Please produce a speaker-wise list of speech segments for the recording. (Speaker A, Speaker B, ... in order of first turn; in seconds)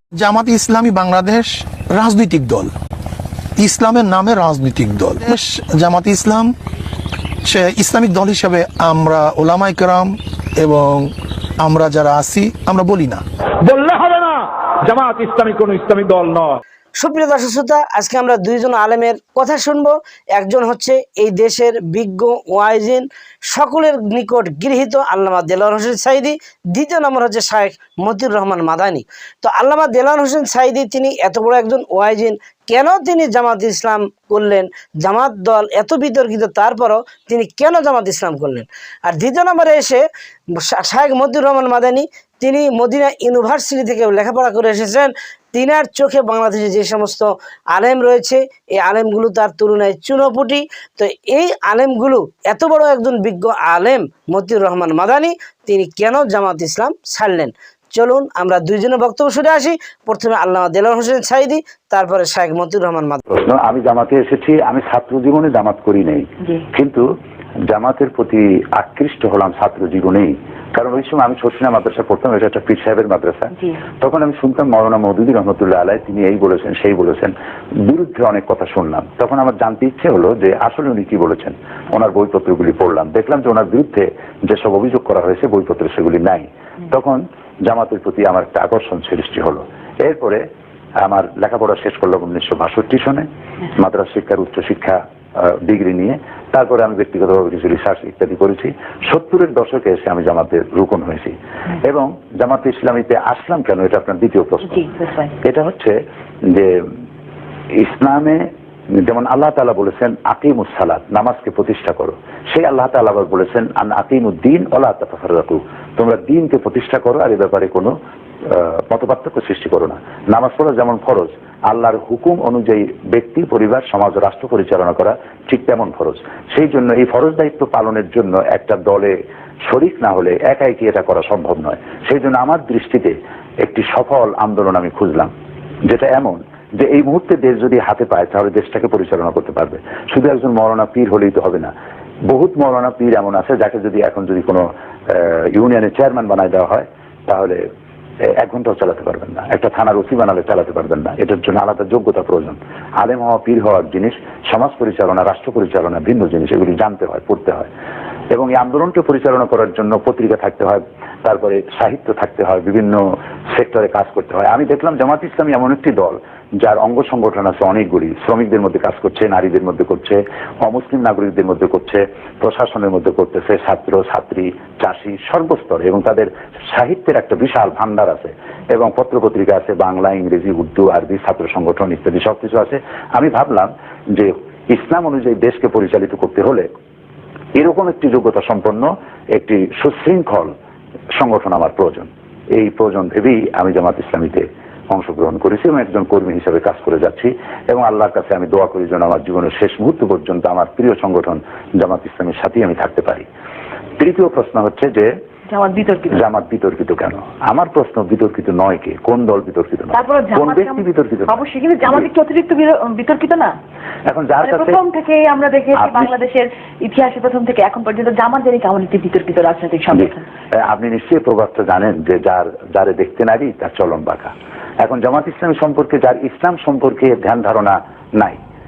Speaker A: 0.2-2.7, 3.6-6.5, 7.5-11.1, 11.6-13.1
Speaker B: 13.6-16.6
Speaker C: 17.0-63.2
Speaker D: 63.3-67.0, 67.7-77.3, 77.9-90.4, 91.0-95.0, 95.7-104.8, 105.4-105.9, 107.8-108.4, 109.0-117.9, 118.5-129.1, 129.7-135.3, 135.9-141.7, 142.3-147.6, 148.4-157.7, 158.3-186.7, 187.6-190.5, 191.2-203.2, 204.0-205.1, 206.1-212.1, 214.1-214.8, 215.8-216.1, 219.9-228.4
Speaker E: 104.7-105.3, 205.5-206.2, 209.9-213.5, 214.4-220.2